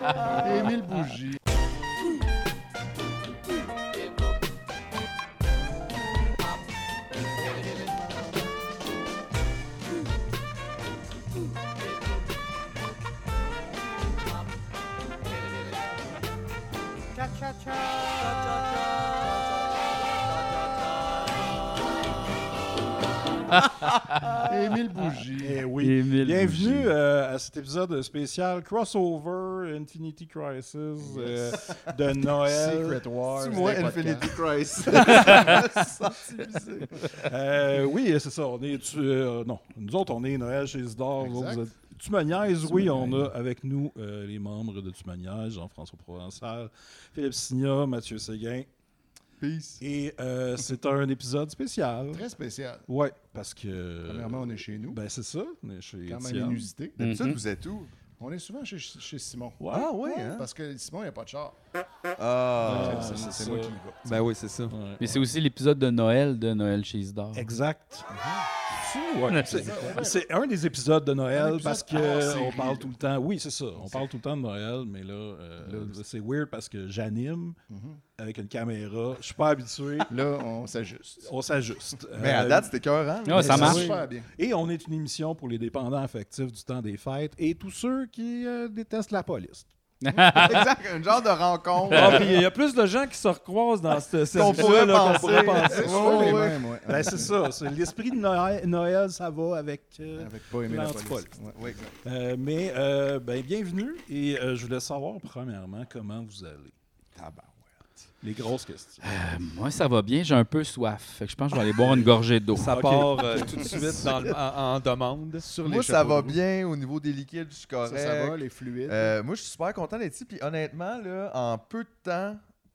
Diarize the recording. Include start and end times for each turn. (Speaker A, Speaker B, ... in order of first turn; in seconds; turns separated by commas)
Speaker A: 0.4-1.4, Speaker A: 24.4-25.6, Speaker B: 25.4-34.1, Speaker C: 25.8-26.9, Speaker A: 31.0-31.6, Speaker A: 32.3-34.4, Speaker D: 33.4-36.9, Speaker A: 35.1-35.3, Speaker B: 37.2-48.7, Speaker A: 41.2-41.6, Speaker C: 42.6-43.3, Speaker D: 49.4-49.8, Speaker B: 49.8-52.2, Speaker A: 52.1-52.9, Speaker B: 52.9-56.6, Speaker A: 54.1-55.0, Speaker A: 56.0-56.9, Speaker D: 57.0-57.9, Speaker C: 57.0-57.4, Speaker A: 58.2-61.5, Speaker B: 59.6-59.9, Speaker D: 59.7-60.4, Speaker D: 62.2-63.1, Speaker B: 62.6-63.8, Speaker A: 62.6-64.0, Speaker D: 64.1-64.7, Speaker B: 64.7-65.2, Speaker C: 65.0-67.5, Speaker B: 67.3-77.6, Speaker A: 69.4-70.2, Speaker A: 71.3-72.9, Speaker A: 73.8-74.0, Speaker A: 75.6-76.0, Speaker A: 77.7-78.0, Speaker B: 78.2-80.1, Speaker A: 80.1-81.3, Speaker B: 81.2-82.7, Speaker D: 82.2-84.1, Speaker C: 83.2-83.8, Speaker A: 83.3-84.2, Speaker B: 83.4-89.7, Speaker C: 90.0-90.6, Speaker D: 90.3-92.3, Speaker E: 91.9-96.4, Speaker D: 94.3-96.6, Speaker A: 95.1-97.4, Speaker B: 95.9-101.4, Speaker A: 100.2-101.6, Speaker D: 101.5-101.9, Speaker B: 102.0-106.7, Speaker B: 108.2-109.0, Speaker C: 109.0-112.9, Speaker E: 112.5-115.4, Speaker B: 112.7-113.8, Speaker A: 115.4-116.4, Speaker D: 115.6-118.4, Speaker A: 117.8-119.1, Speaker D: 118.9-122.4